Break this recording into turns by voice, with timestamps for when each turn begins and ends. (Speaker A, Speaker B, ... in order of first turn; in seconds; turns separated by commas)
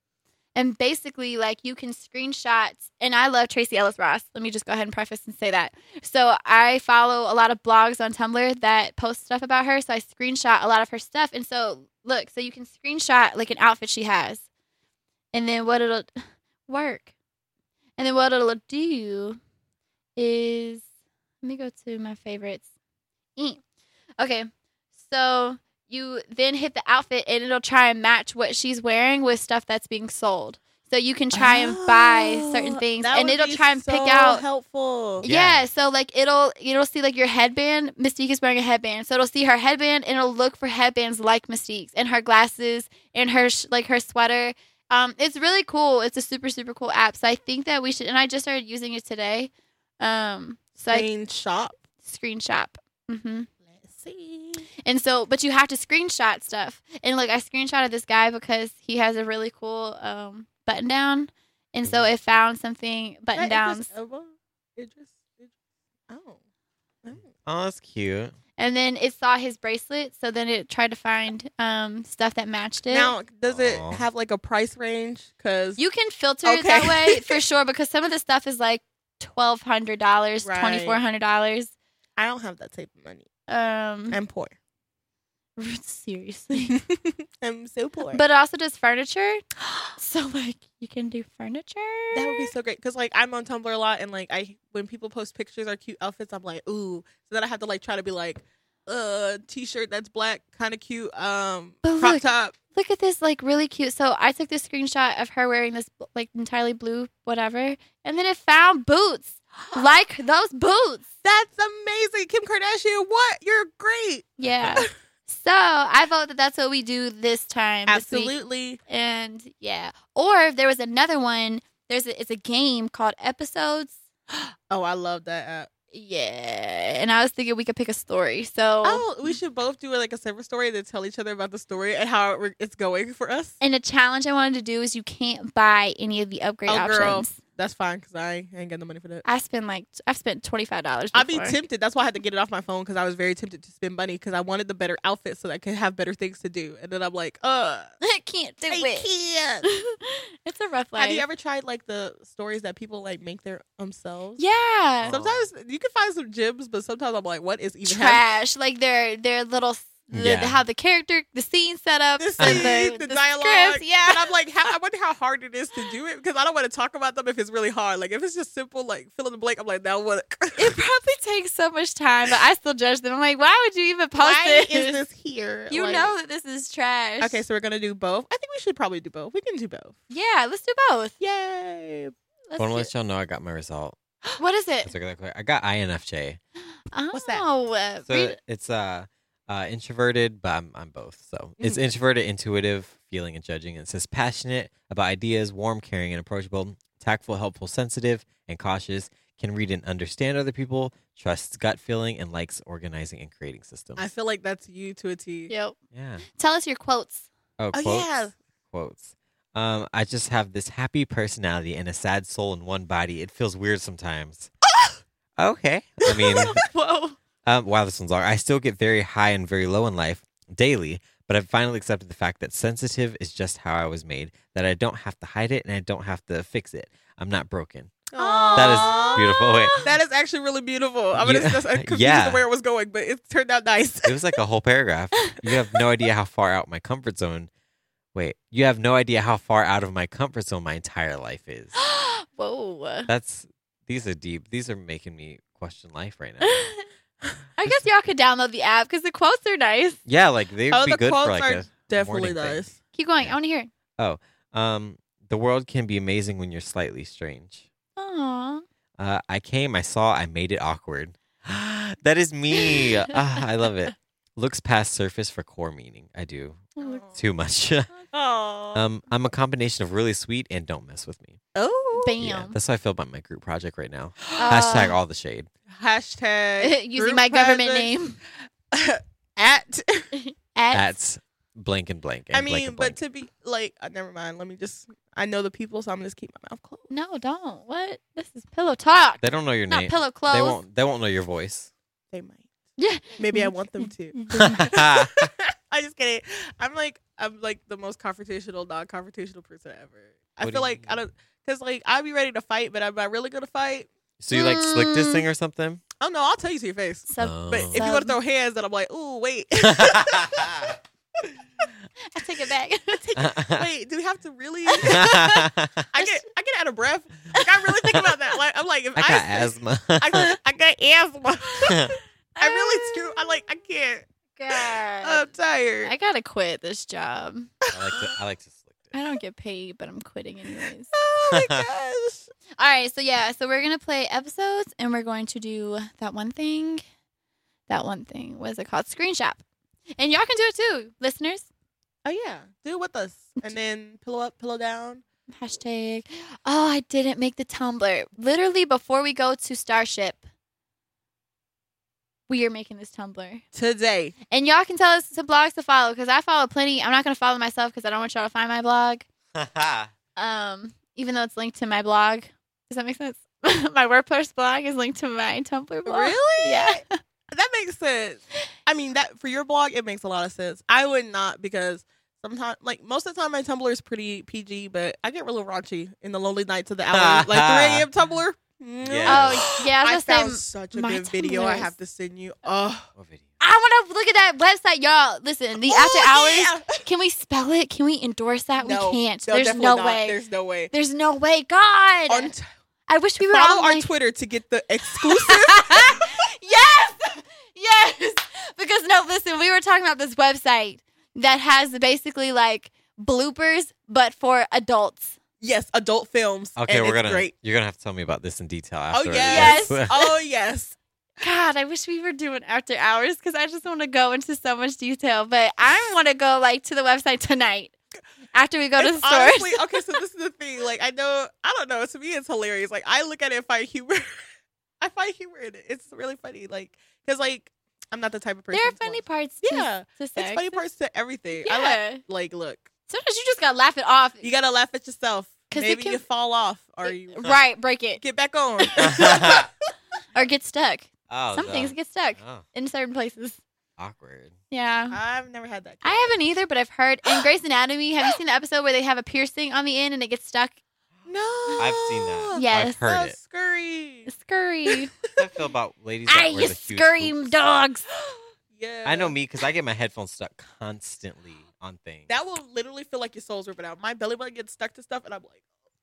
Speaker A: 0.6-14.4, Speaker A: 15.3-16.1, Speaker A: 16.7-17.1, Speaker A: 18.0-19.4, Speaker A: 20.2-20.9, Speaker A: 21.4-22.7, Speaker A: 23.4-23.6, Speaker A: 24.2-34.4, Speaker B: 31.3-35.3, Speaker A: 35.2-51.1, Speaker C: 35.2-35.6, Speaker B: 50.9-51.8, Speaker A: 52.0-53.5, Speaker B: 53.7-54.7, Speaker A: 54.9-63.9, Speaker C: 61.9-62.1, Speaker B: 63.4-65.5, Speaker B: 66.1-66.4, Speaker B: 67.0-67.3, Speaker C: 67.5-68.3, Speaker A: 68.6-73.1, Speaker B: 72.9-75.8, Speaker C: 73.5-74.0, Speaker A: 75.8-81.7, Speaker B: 76.5-77.4, Speaker B: 80.4-81.0, Speaker B: 82.2-83.3, Speaker A: 83.5-84.2, Speaker B: 84.1-84.5, Speaker A: 85.6-86.8, Speaker B: 86.5-88.2, Speaker A: 88.1-89.4, Speaker A: 90.0-92.5, Speaker B: 92.1-102.6, Speaker A: 101.8-111.1, Speaker B: 111.2-114.9, Speaker A: 114.4-118.3, Speaker B: 117.9-118.8, Speaker A: 118.9-124.0, Speaker B: 124.7-125.7, Speaker A: 125.9-129.1, Speaker B: 128.8-133.6, Speaker A: 133.6-137.4, Speaker B: 136.7-139.2, Speaker A: 139.2-141.6, Speaker B: 141.1-147.9, Speaker A: 148.0-149.1, Speaker B: 148.7-149.7, Speaker A: 149.6-151.2, Speaker B: 151.0-154.4, Speaker A: 154.4-155.2, Speaker C: 155.0-155.5, Speaker B: 155.1-158.2, Speaker A: 157.8-164.3, Speaker C: 160.1-160.6, Speaker B: 162.2-170.8, Speaker C: 162.4-162.7, Speaker A: 170.6-175.0, Speaker B: 174.2-176.1, Speaker A: 175.7-177.4, Speaker B: 177.2-180.0, Speaker A: 180.1-181.1, Speaker B: 181.2-182.2, Speaker A: 182.5-182.9, Speaker C: 182.6-184.0, Speaker A: 184.4-184.9, Speaker C: 184.8-186.4, Speaker A: 186.9-188.4, Speaker B: 187.1-187.5, Speaker C: 188.1-204.1, Speaker B: 204.0-205.5, Speaker A: 205.5-205.8, Speaker C: 205.9-206.2, Speaker A: 206.3-207.3, Speaker C: 207.6-208.1, Speaker B: 207.7-208.3, Speaker C: 208.7-214.5, Speaker C: 215.4-216.7, Speaker B: 216.1-216.6, Speaker A: 216.6-217.2, Speaker C: 217.4-229.8, Speaker B: 228.1-229.2, Speaker A: 228.2-229.9, Speaker B: 229.8-234.3, Speaker C: 231.2-232.4, Speaker C: 234.1-237.5, Speaker C: 238.1-241.7, Speaker A: 241.8-243.1, Speaker C: 243.1-246.6, Speaker A: 246.4-246.8, Speaker A: 247.6-250.0, Speaker C: 250.1-252.7, Speaker B: 250.7-252.7, Speaker A: 252.9-253.7, Speaker C: 254.0-257.7, Speaker A: 258.0-258.6, Speaker C: 259.0-267.9, Speaker A: 266.8-267.0, Speaker B: 266.8-267.2, Speaker B: 268.0-268.8, Speaker C: 268.7-271.4, Speaker B: 271.6-272.2, Speaker A: 271.9-272.6, Speaker C: 272.2-275.5, Speaker A: 274.4-274.9, Speaker B: 275.7-277.9, Speaker A: 276.6-278.2, Speaker B: 278.7-280.1, Speaker A: 280.2-281.0, Speaker C: 280.7-283.0, Speaker B: 282.3-286.9, Speaker A: 286.9-290.6, Speaker C: 289.2-291.7, Speaker B: 292.1-292.5, Speaker A: 292.8-294.7, Speaker B: 293.1-294.2, Speaker C: 294.4-295.3, Speaker B: 294.7-303.9, Speaker C: 300.4-301.0, Speaker C: 304.2-305.8, Speaker A: 304.3-305.3, Speaker B: 306.0-310.5, Speaker A: 307.1-308.2, Speaker C: 307.2-307.8, Speaker C: 309.8-310.7, Speaker A: 312.1-313.0, Speaker B: 312.9-315.3, Speaker C: 313.2-313.6, Speaker A: 314.7-315.4, Speaker C: 314.8-315.8, Speaker B: 315.9-325.9, Speaker A: 316.0-316.2, Speaker C: 319.0-320.3, Speaker A: 321.6-323.3, Speaker A: 324.4-325.3, Speaker A: 325.8-328.0, Speaker B: 327.6-327.9, Speaker C: 327.7-328.9, Speaker A: 328.9-330.9, Speaker B: 330.9-332.3, Speaker A: 332.6-336.8, Speaker A: 337.7-339.4, Speaker A: 340.0-341.5, Speaker B: 342.1-345.0, Speaker A: 345.4-350.2, Speaker A: 352.3-353.4, Speaker B: 353.5-354.1, Speaker A: 354.3-359.1, Speaker C: 359.4-359.9, Speaker A: 360.2-366.9, Speaker B: 365.9-382.9, Speaker C: 376.9-377.9, Speaker C: 378.8-379.6, Speaker A: 379.1-381.7, Speaker C: 383.0-383.3, Speaker A: 383.4-390.2, Speaker B: 385.7-386.8, Speaker B: 388.6-390.7, Speaker A: 390.7-392.3, Speaker B: 392.1-392.5, Speaker A: 392.9-393.9, Speaker B: 393.2-396.1, Speaker A: 394.9-405.2, Speaker B: 405.4-407.3, Speaker C: 406.6-409.9, Speaker B: 408.9-410.8, Speaker A: 409.3-409.8, Speaker A: 411.2-417.7, Speaker A: 418.3-419.9, Speaker B: 418.8-424.1, Speaker B: 424.8-432.7, Speaker A: 428.5-430.6, Speaker A: 431.4-432.0, Speaker A: 432.9-434.3, Speaker B: 434.2-437.3, Speaker A: 435.5-436.0, Speaker A: 436.8-438.0, Speaker B: 438.0-439.5, Speaker A: 438.6-439.2, Speaker C: 438.8-439.5, Speaker A: 440.1-443.4, Speaker C: 441.1-442.4, Speaker C: 443.8-444.4, Speaker A: 444.5-445.0, Speaker B: 444.9-446.2, Speaker A: 445.8-450.5, Speaker B: 451.1-454.1, Speaker C: 451.6-453.2, Speaker A: 452.3-452.9, Speaker A: 454.1-454.9, Speaker C: 455.1-457.4, Speaker A: 456.1-457.9, Speaker B: 458.1-459.2, Speaker C: 458.9-462.1, Speaker B: 462.1-465.4